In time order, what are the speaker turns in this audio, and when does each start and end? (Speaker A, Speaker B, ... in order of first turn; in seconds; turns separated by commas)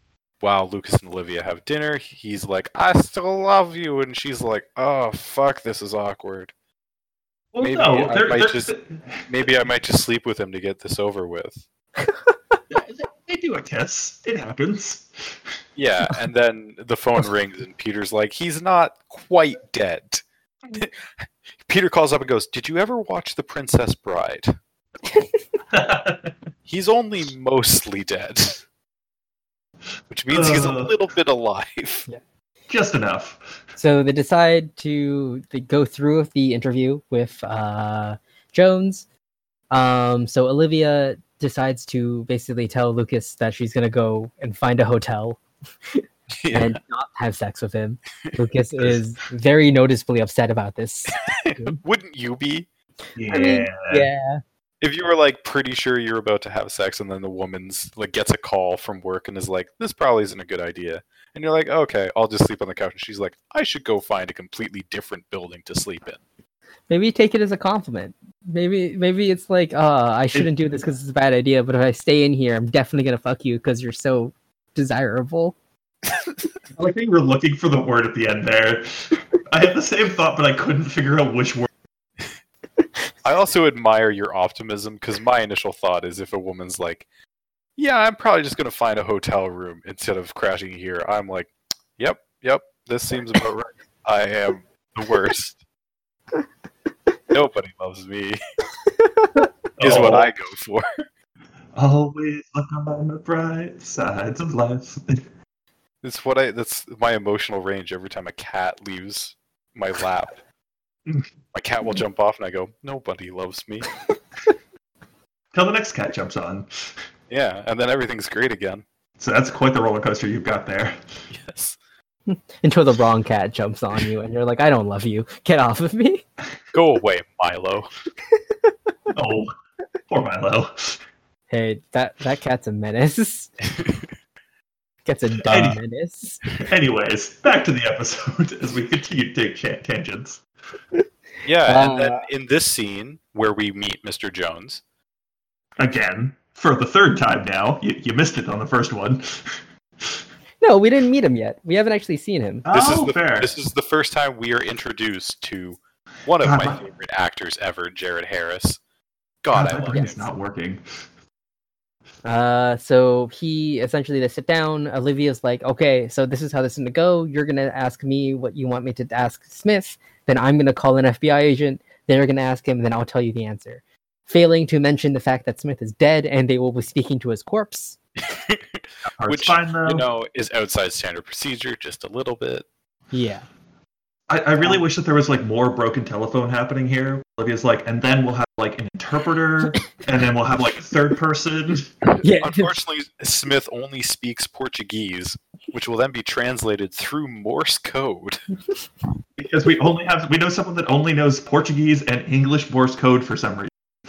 Speaker A: 0.4-6.5, Speaker B: 7.5-9.5, Speaker A: 7.6-8.7, Speaker A: 9.3-11.6, Speaker C: 12.0-12.6, Speaker B: 12.7-15.5, Speaker A: 15.8-20.2, Speaker A: 20.8-24.5, Speaker B: 25.7-26.3, Speaker A: 26.7-28.6, Speaker A: 30.1-32.1, Speaker B: 30.3-30.9, Speaker B: 32.7-33.6, Speaker C: 33.8-39.1, Speaker C: 39.7-45.4, Speaker C: 45.9-51.8, Speaker A: 46.4-46.8, Speaker A: 51.2-52.7, Speaker B: 53.2-54.1, Speaker C: 53.3-54.4, Speaker A: 54.8-66.2, Speaker C: 66.9-75.6, Speaker B: 76.8-81.7, Speaker A: 83.2-87.1, Speaker A: 87.8-95.6, Speaker A: 97.3-98.4, Speaker C: 99.0-99.5, Speaker B: 99.8-100.3, Speaker A: 99.8-100.9, Speaker B: 101.8-105.2, Speaker A: 106.0-110.4, Speaker A: 111.5-114.0, Speaker B: 115.5-116.9, Speaker A: 117.3-118.8, Speaker B: 119.2-121.0, Speaker A: 121.3-121.8, Speaker C: 122.3-126.2, Speaker A: 126.7-127.9, Speaker B: 129.1-129.5, Speaker B: 130.1-131.0, Speaker C: 131.5-133.5, Speaker C: 135.1-136.4, Speaker B: 135.5-135.8, Speaker B: 136.6-140.4, Speaker A: 141.4-144.8, Speaker C: 141.7-142.3, Speaker B: 145.8-150.2, Speaker C: 150.6-152.7, Speaker B: 152.7-153.5, Speaker A: 152.7-158.8, Speaker B: 156.4-156.8, Speaker A: 159.4-160.3, Speaker B: 159.5-160.8, Speaker C: 162.2-178.0, Speaker A: 178.2-182.7, Speaker B: 179.2-180.1, Speaker C: 183.1-183.5, Speaker B: 184.3-191.9, Speaker C: 192.2-192.8, Speaker A: 192.2-198.4, Speaker B: 199.4-203.7